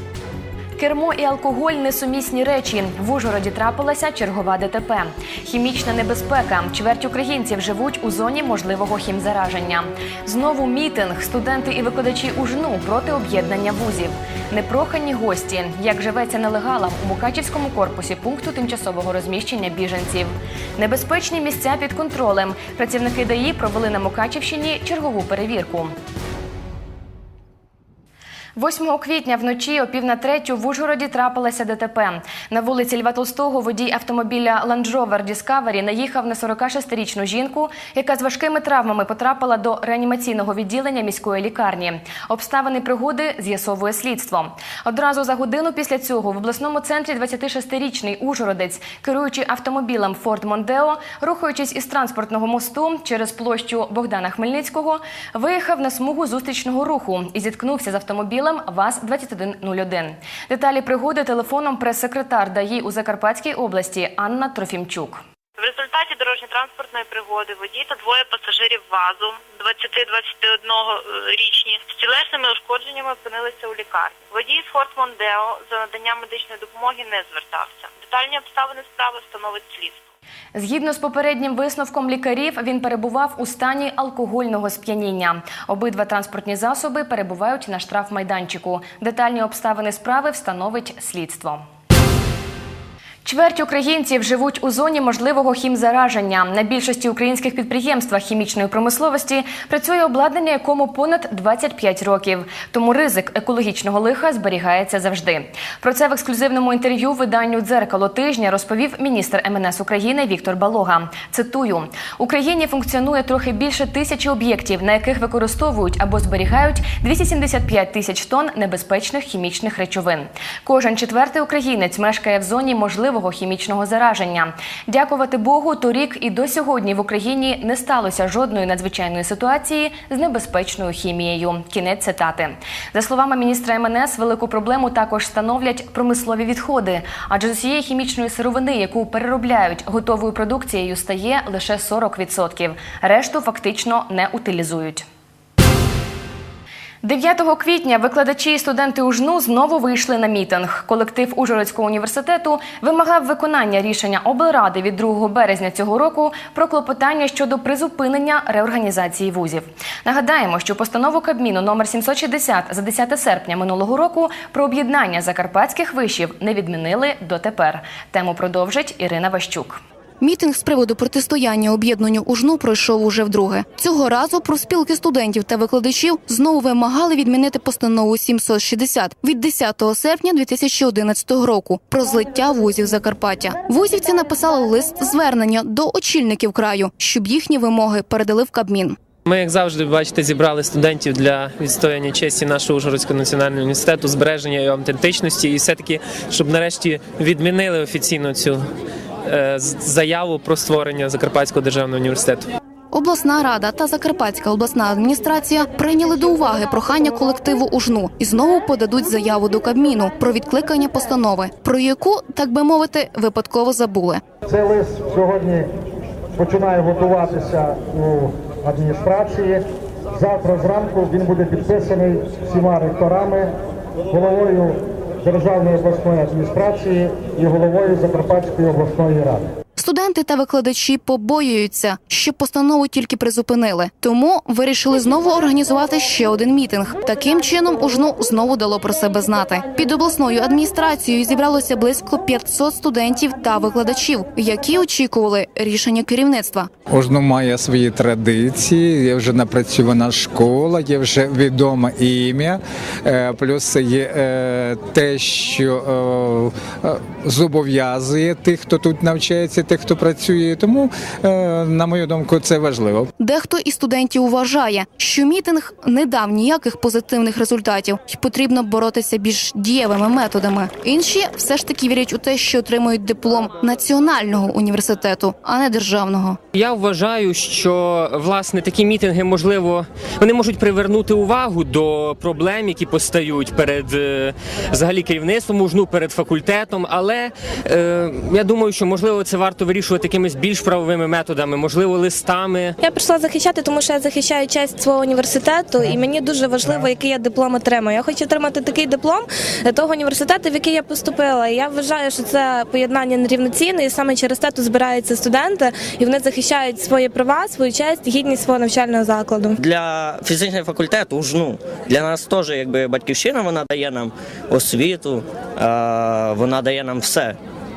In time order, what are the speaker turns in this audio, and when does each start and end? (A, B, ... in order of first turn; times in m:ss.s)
0:00.8-0:25.9 A
0:28.6-1:05.2 A
1:05.6-1:20.1 B
1:20.5-1:31.6 A
1:33.2-2:25.0 A
2:27.0-2:49.8 A
2:50.2-3:09.0 C
3:09.2-3:18.6 D
3:19.2-3:22.5 D
3:22.9-3:34.2 C
3:34.5-3:35.7 E
3:36.4-3:39.6 E
3:40.1-3:43.5 E
3:44.1-3:49.4 E
3:49.8-4:06.7 C
4:06.9-4:23.1 F
4:23.2-4:36.4 C
4:36.5-4:52.7 G
4:52.8-5:09.6 H
5:09.6-5:17.4 I